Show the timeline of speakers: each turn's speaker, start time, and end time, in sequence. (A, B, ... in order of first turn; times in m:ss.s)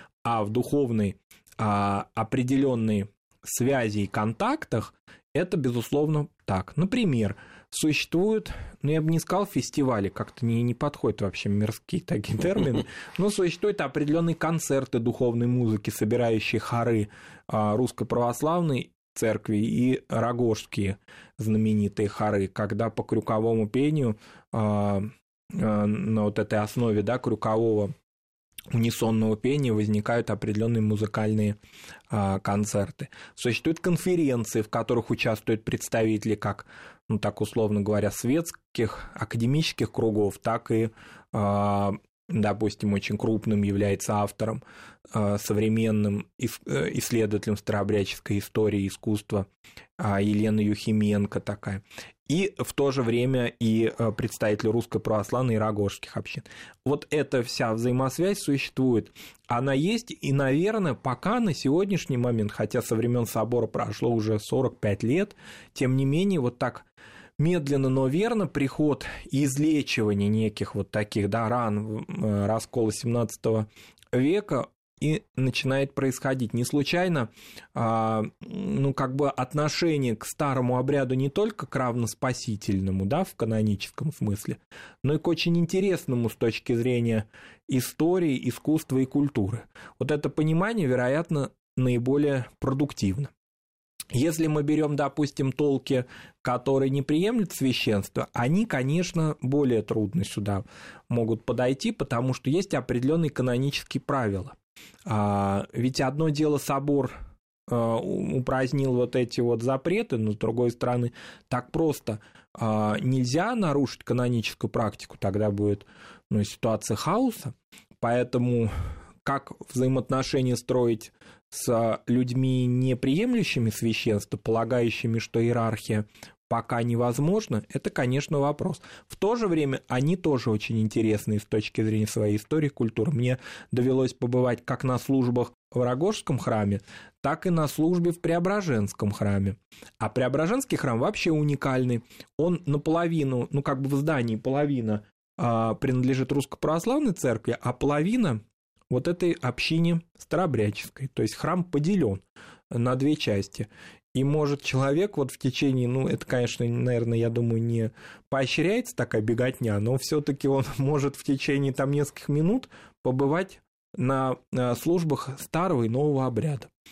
0:00.2-0:27.9 A
0:28.7-0:31.6 A
0:32.1-0:49.5 A
0:50.0-1:06.8 A
1:07.4-1:33.3 A
1:34.1-1:47.2 A
1:47.7-1:58.7 A
1:59.2-2:46.7 A